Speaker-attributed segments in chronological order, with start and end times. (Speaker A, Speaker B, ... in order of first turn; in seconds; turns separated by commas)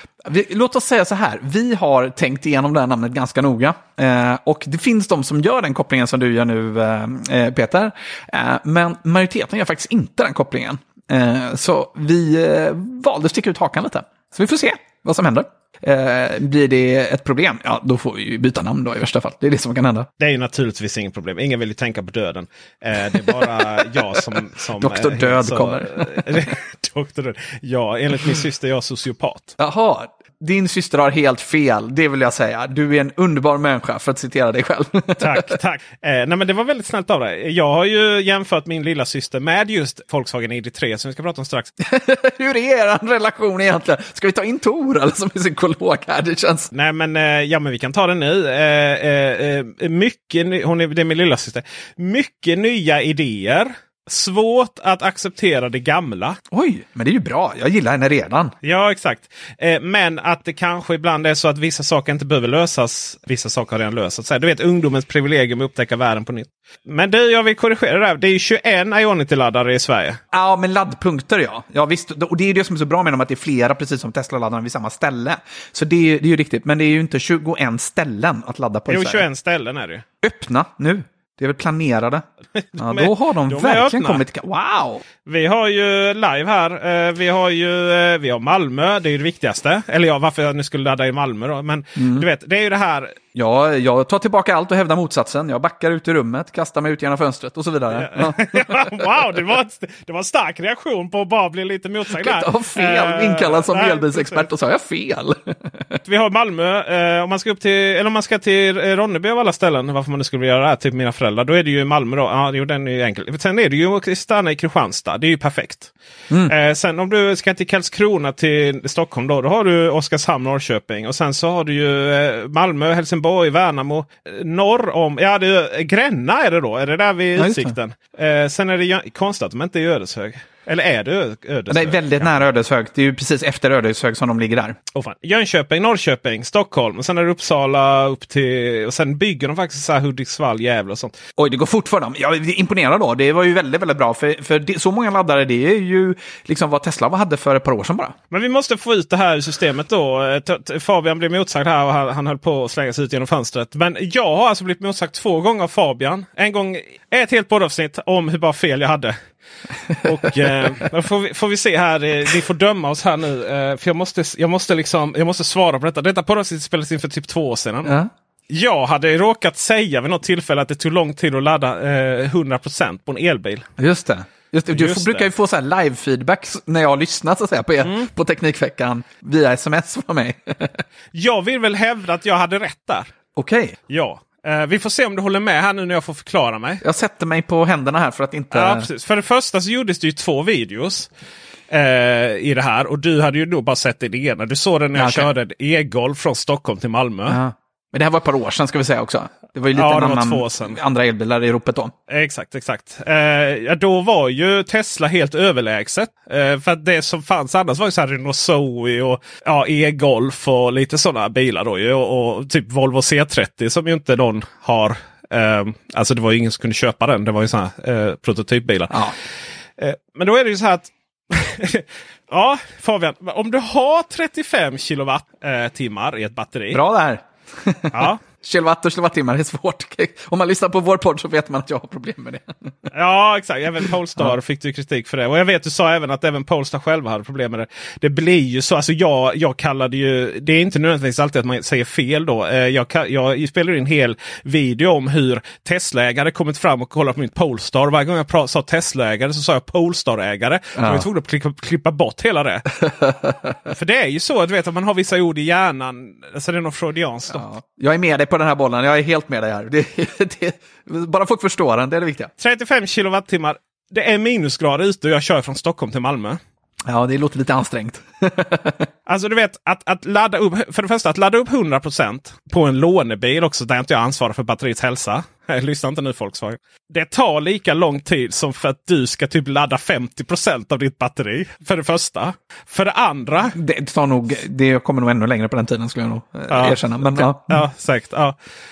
Speaker A: 0.2-20.1, Speaker B: 20.2-29.6, Speaker A: 24.8-26.4, Speaker A: 29.6-35.6, Speaker B: 35.2-41.7, Speaker A: 41.8-46.7, Speaker B: 46.7-56.4, Speaker A: 56.5-58.5, Speaker B: 58.6-70.2, Speaker A: 70.3-79.3, Speaker B: 78.9-80.0, Speaker A: 80.2-82.2, Speaker B: 82.7-84.2, Speaker A: 82.8-85.0, Speaker B: 85.2-93.2, Speaker A: 92.0-92.3, Speaker A: 93.3-98.9, Speaker B: 98.0-104.5, Speaker A: 102.1-105.9, Speaker B: 106.0-115.9, Speaker B: 116.5-132.3, Speaker A: 127.4-127.8, Speaker A: 131.7-134.8, Speaker B: 134.9-141.2, Speaker A: 141.4-148.2, Speaker B: 148.3-159.2, Speaker B: 160.0-167.9, Speaker A: 167.8-168.1, Speaker B: 168.5-173.7, Speaker A: 173.8-180.8, Speaker B: 174.7-175.3, Speaker B: 177.8-178.1, Speaker B: 181.1-183.1, Speaker A: 183.4-183.8, Speaker B: 183.9-186.8, Speaker A: 186.8-188.9, Speaker B: 188.5-191.1, Speaker B: 191.7-197.4, Speaker A: 194.9-195.3, Speaker A: 197.3-201.9, Speaker B: 199.7-200.8, Speaker B: 202.1-219.0, Speaker B: 219.8-226.8, Speaker A: 226.7-232.5, Speaker B: 227.9-228.2, Speaker B: 232.9-252.7, Speaker A: 250.8-251.1, Speaker A: 252.8-253.5, Speaker B: 253.7-257.5, Speaker A: 257.3-262.3, Speaker B: 262.4-266.4, Speaker A: 266.9-268.9, Speaker B: 269.1-283.6, Speaker A: 283.6-287.6, Speaker B: 286.5-288.4